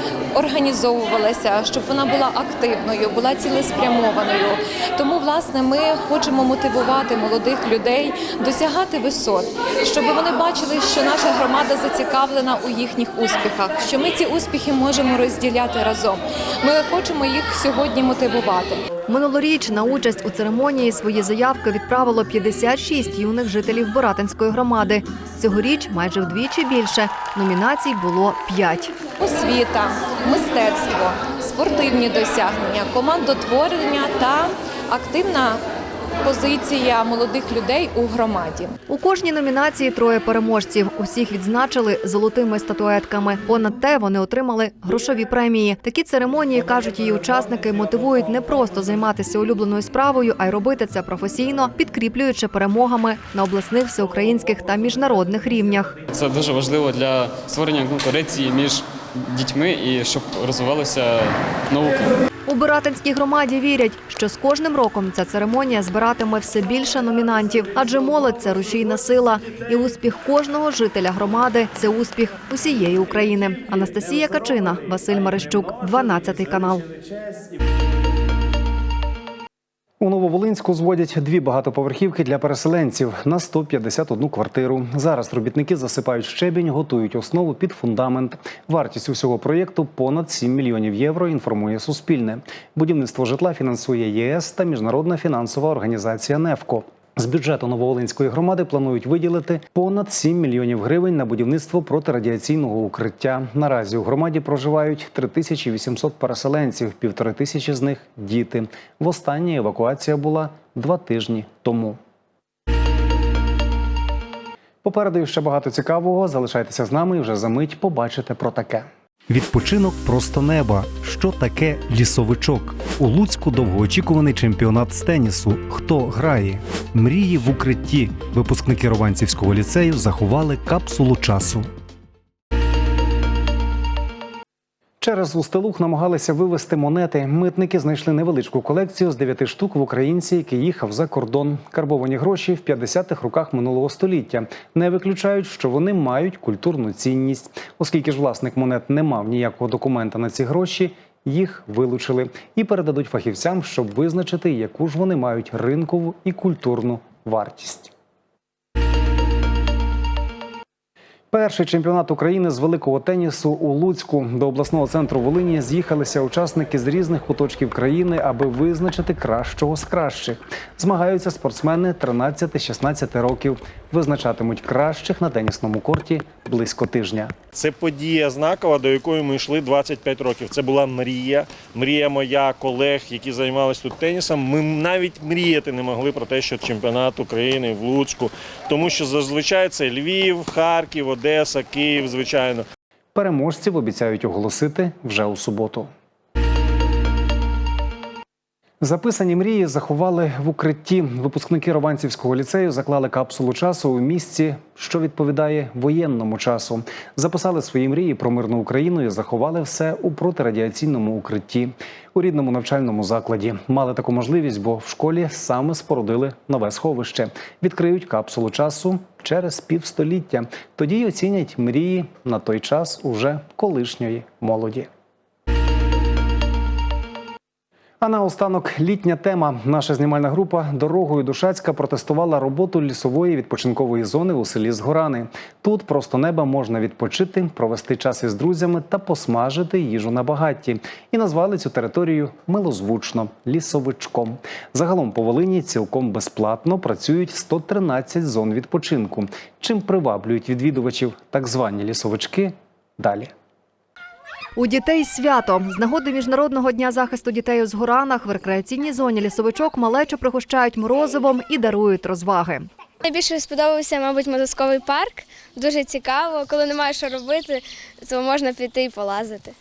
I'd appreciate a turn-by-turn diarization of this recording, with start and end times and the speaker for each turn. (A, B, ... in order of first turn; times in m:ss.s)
0:00.3-0:18.8 A
0:19.1-0:28.9 B
0:29.2-0:35.6 A
0:36.2-0:38.7 A
0:38.9-0:55.9 B
0:56.1-1:02.2 C
1:02.5-1:16.9 B
1:20.0-1:52.0 D
1:54.8-2:11.7 D
2:15.0-2:37.9 D
2:41.3-2:57.3 D
2:57.5-3:12.6 E
3:13.2-3:15.9 D
3:18.8-3:44.9 D
3:48.0-4:13.3 D
4:14.6-4:22.7 B
4:23.0-4:29.5 F